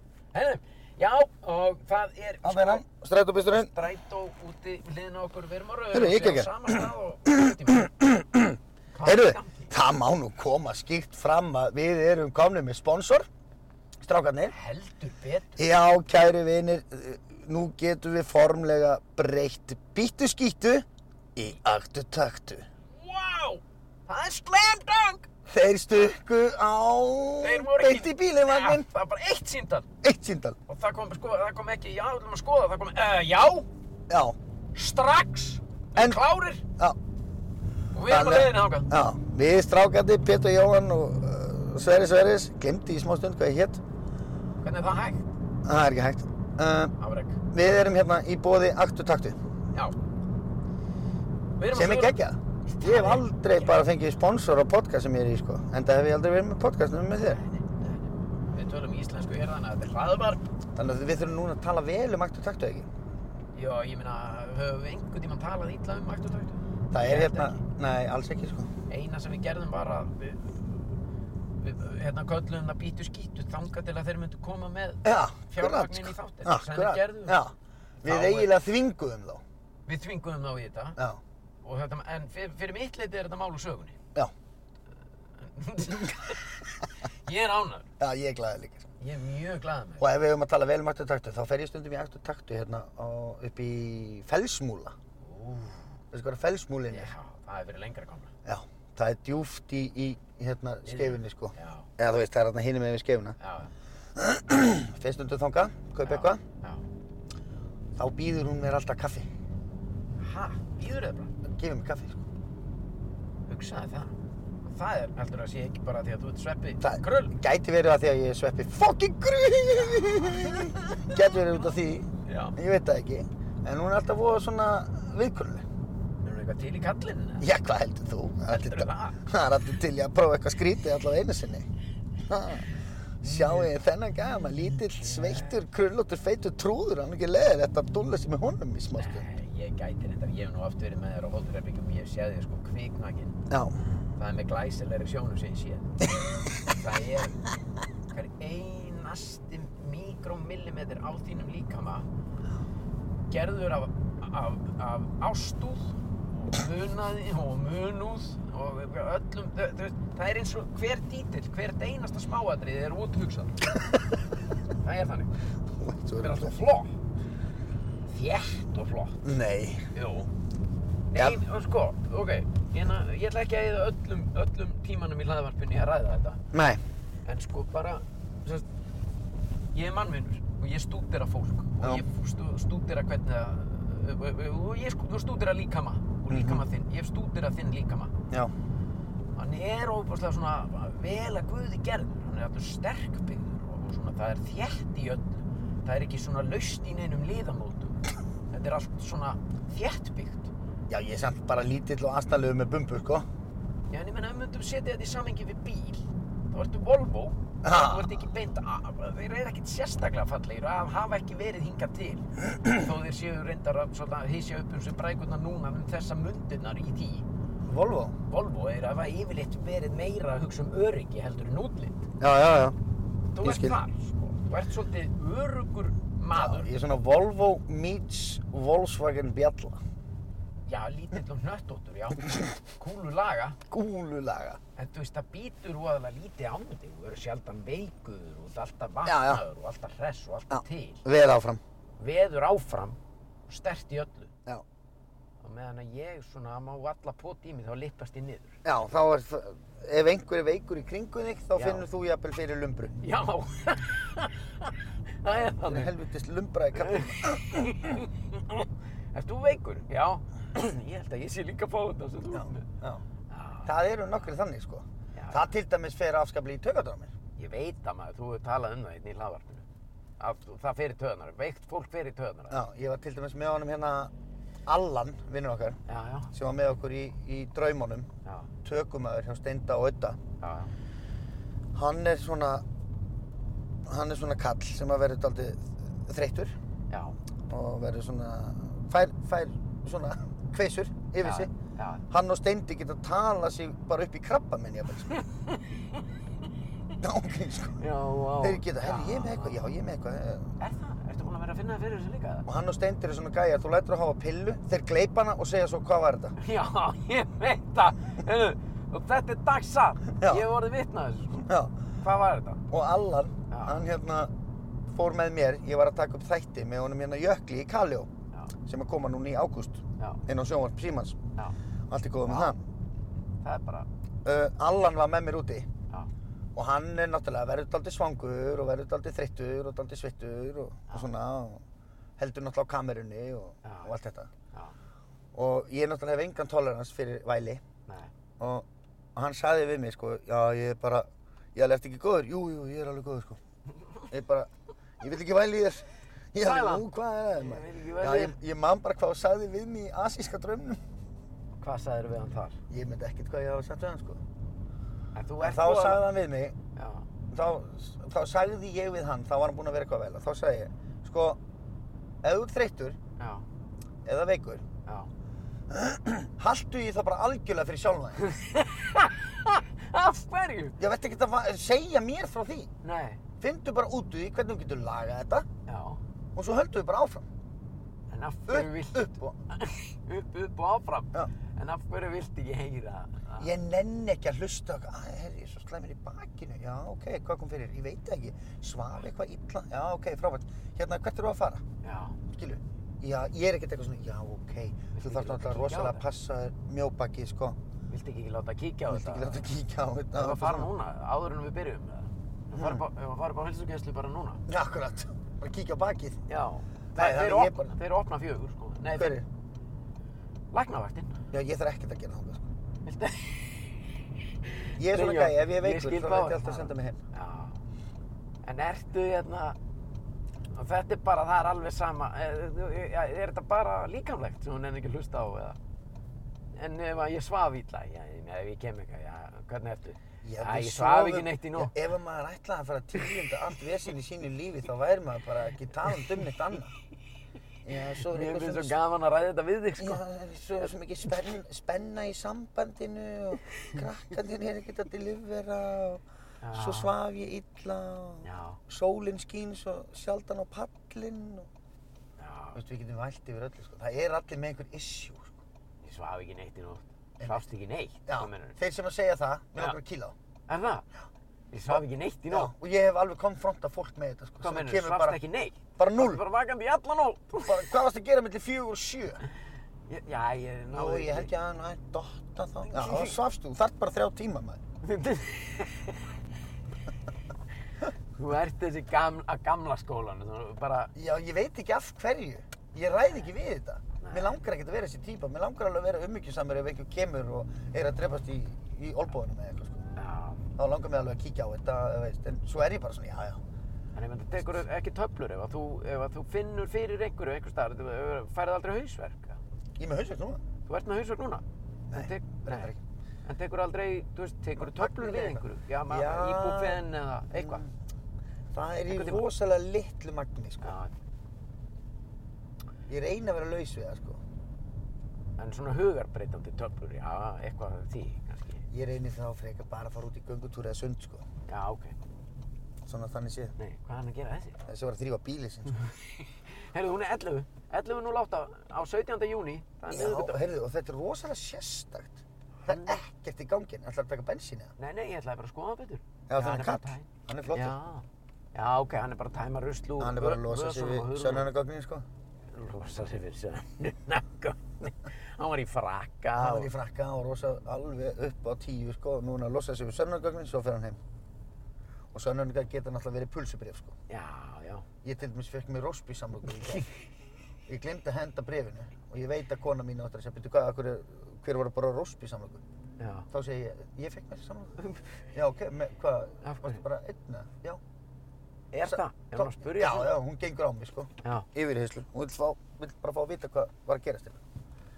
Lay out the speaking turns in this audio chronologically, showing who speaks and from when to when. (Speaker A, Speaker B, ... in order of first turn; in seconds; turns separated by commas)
Speaker A: 0.3-2.8, Speaker B: 2.4-3.7, Speaker A: 3.5-7.9, Speaker B: 5.9-6.7, Speaker B: 7.3-13.3, Speaker A: 8.9-9.7, Speaker B: 14.0-14.5, Speaker A: 14.5-15.9, Speaker B: 15.6-22.7, Speaker A: 22.9-25.3, Speaker B: 25.5-28.9, Speaker A: 27.4-29.9, Speaker B: 30.0-30.6, Speaker A: 30.7-33.7, Speaker B: 34.1-34.4, Speaker A: 34.7-36.6, Speaker B: 36.0-36.2, Speaker A: 37.9-38.9, Speaker B: 38.0-43.8, Speaker A: 44.6-45.3, Speaker B: 45.6-46.9, Speaker A: 47.0-47.4, Speaker B: 47.5-49.5, Speaker A: 51.6-53.8, Speaker B: 51.7-57.4, Speaker A: 57.2-60.5, Speaker B: 60.8-62.9, Speaker A: 63.5-67.6, Speaker B: 66.9-68.7, Speaker A: 68.9-70.9, Speaker A: 71.6-77.4, Speaker B: 75.0-79.4, Speaker A: 78.0-78.7, Speaker A: 79.8-81.0, Speaker A: 81.6-84.0, Speaker A: 85.3-87.9, Speaker B: 88.0-88.9, Speaker A: 89.0-90.1, Speaker B: 90.0-95.0, Speaker A: 95.2-96.0, Speaker B: 96.1-97.1, Speaker A: 96.9-98.3, Speaker B: 98.4-103.4, Speaker A: 100.8-101.9, Speaker A: 103.4-103.7, Speaker B: 104.2-106.4, Speaker A: 106.0-106.8, Speaker B: 108.0-109.3, Speaker A: 110.2-111.3, Speaker B: 111.4-112.2, Speaker A: 113.5-117.3, Speaker B: 116.8-125.7, Speaker A: 119.8-121.6, Speaker A: 122.2-122.6, Speaker A: 126.2-127.5, Speaker B: 127.4-131.7, Speaker A: 128.4-129.2, Speaker B: 132.3-139.2, Speaker A: 133.2-133.8, Speaker A: 134.5-135.6, Speaker A: 138.9-143.4, Speaker B: 143.5-143.8, Speaker A: 144.2-147.4, Speaker A: 148.1-152.1, Speaker A: 153.3-163.6, Speaker A: 164.7-165.3, Speaker B: 165.8-166.6, Speaker A: 166.2-167.0, Speaker A: 168.1-169.3, Speaker B: 169.2-169.9, Speaker A: 169.9-170.3, Speaker A: 171.1-176.4, Speaker B: 176.5-176.8, Speaker A: 177.2-178.7, Speaker A: 179.7-188.1, Speaker B: 186.3-186.6, Speaker A: 189.3-198.0, Speaker A: 198.5-200.5, Speaker B: 200.9-203.2, Speaker A: 203.9-217.2, Speaker B: 207.6-208.2, Speaker B: 217.7-218.2, Speaker A: 218.3-222.1, Speaker B: 222.2-222.8, Speaker A: 223.3-226.7, Speaker B: 223.4-223.8, Speaker B: 226.3-229.8, Speaker A: 230.7-233.6, Speaker B: 233.7-234.6, Speaker A: 234.8-241.0, Speaker B: 239.0-239.4, Speaker B: 240.5-241.6, Speaker A: 242.0-244.3, Speaker A: 245.4-248.6, Speaker B: 248.6-253.0, Speaker A: 251.5-251.9, Speaker A: 253.0-255.9, Speaker B: 255.6-258.0, Speaker A: 256.8-262.7, Speaker B: 262.3-263.0, Speaker A: 263.3-264.3, Speaker B: 263.6-267.1, Speaker A: 265.1-265.5, Speaker A: 267.4-269.6, Speaker A: 270.2-272.6, Speaker B: 272.5-274.1, Speaker B: 274.7-275.8, Speaker A: 275.9-276.3, Speaker B: 276.3-278.1, Speaker A: 278.2-278.5, Speaker B: 278.6-280.2, Speaker A: 280.4-280.7, Speaker B: 281.7-282.6, Speaker B: 283.8-286.5, Speaker A: 286.9-287.1, Speaker B: 287.5-291.5, Speaker A: 291.2-292.0, Speaker B: 292.1-295.2, Speaker A: 295.1-295.7, Speaker B: 297.0-297.8, Speaker A: 297.8-299.8, Speaker B: 298.4-300.5, Speaker A: 300.6-302.5, Speaker B: 302.4-306.4, Speaker A: 306.4-311.5, Speaker B: 310.2-310.5, Speaker B: 311.4-311.8, Speaker A: 312.0-312.6, Speaker B: 312.7-314.3, Speaker A: 313.5-313.9, Speaker B: 314.9-318.1, Speaker B: 318.6-321.2, Speaker A: 320.0-320.2, Speaker B: 321.9-322.6, Speaker A: 322.2-322.5, Speaker A: 323.4-323.9, Speaker B: 324.2-325.7, Speaker B: 326.5-331.6, Speaker B: 332.2-334.3, Speaker A: 333.6-334.0, Speaker B: 335.3-337.6, Speaker A: 337.9-338.1, Speaker B: 338.4-343.4, Speaker B: 344.1-350.8, Speaker A: 346.4-348.4, Speaker A: 351.6-352.6, Speaker B: 352.7-354.2, Speaker A: 355.1-356.1, Speaker B: 355.4-356.6, Speaker A: 356.7-357.1, Speaker B: 357.3-361.4, Speaker B: 362.2-363.0, Speaker A: 363.2-363.4, Speaker B: 364.0-364.6, Speaker A: 364.9-365.1, Speaker B: 365.7-368.2, Speaker A: 368.2-370.8, Speaker B: 370.8-372.7, Speaker A: 372.8-373.2, Speaker B: 373.4-375.5, Speaker A: 375.6-376.0, Speaker B: 376.3-377.3, Speaker A: 378.1-383.5, Speaker B: 378.5-379.4, Speaker B: 383.4-391.6, Speaker A: 391.8-392.2, Speaker B: 392.3-397.6, Speaker A: 394.9-396.0, Speaker A: 397.9-399.5, Speaker B: 398.9-400.7, Speaker A: 400.1-404.4, Speaker B: 402.5-402.9, Speaker B: 404.5-406.2, Speaker A: 406.3-409.2, Speaker B: 406.9-407.7, Speaker B: 408.9-409.2, Speaker A: 410.5-411.2, Speaker B: 411.3-412.4, Speaker A: 412.8-413.7, Speaker A: 414.5-417.6, Speaker B: 414.8-417.0, Speaker A: 418.4-419.6, Speaker A: 420.5-425.6, Speaker A: 426.5-431.7, Speaker B: 430.2-436.7, Speaker B: 437.6-438.8, Speaker A: 437.9-440.0, Speaker B: 439.8-451.5, Speaker A: 446.4-446.9, Speaker A: 448.2-448.6, Speaker A: 452.2-452.6, Speaker B: 452.5-455.4, Speaker A: 455.8-458.6, Speaker B: 457.2-457.4, Speaker B: 458.1-460.1, Speaker A: 460.5-460.9, Speaker A: 461.5-462.5, Speaker B: 461.7-465.2, Speaker A: 464.4-467.7, Speaker B: 465.8-466.2, Speaker B: 467.4-469.2, Speaker A: 469.9-471.3, Speaker B: 470.7-474.6, Speaker A: 472.6-473.2, Speaker A: 474.8-476.1, Speaker A: 478.1-480.9, Speaker B: 480.9-489.8, Speaker A: 484.0-484.4, Speaker A: 489.9-490.4, Speaker B: 490.6-493.4, Speaker A: 493.9-499.4, Speaker B: 494.4-494.6, Speaker B: 499.8-500.4, Speaker A: 500.6-502.7, Speaker B: 501.9-502.8, Speaker A: 503.2-507.6, Speaker B: 504.6-507.7, Speaker B: 508.5-510.8, Speaker A: 508.9-509.2, Speaker A: 510.6-510.9, Speaker B: 512.9-514.2, Speaker A: 515.4-518.6, Speaker B: 518.7-521.3, Speaker A: 521.5-521.9, Speaker B: 522.9-523.5, Speaker A: 523.6-524.6, Speaker B: 524.6-525.8, Speaker A: 525.7-530.4, Speaker B: 529.9-534.7, Speaker A: 532.6-533.0, Speaker A: 534.8-541.5, Speaker B: 536.3-537.8, Speaker B: 540.0-542.0, Speaker A: 542.5-546.7, Speaker B: 546.4-551.0, Speaker B: 552.1-554.0, Speaker A: 554.1-554.9, Speaker B: 555.0-556.9, Speaker B: 557.7-562.6, Speaker A: 563.0-563.3, Speaker B: 563.3-564.8, Speaker A: 564.8-565.2, Speaker B: 565.3-567.8, Speaker A: 566.4-566.8, Speaker A: 568.7-570.2, Speaker B: 568.8-574.4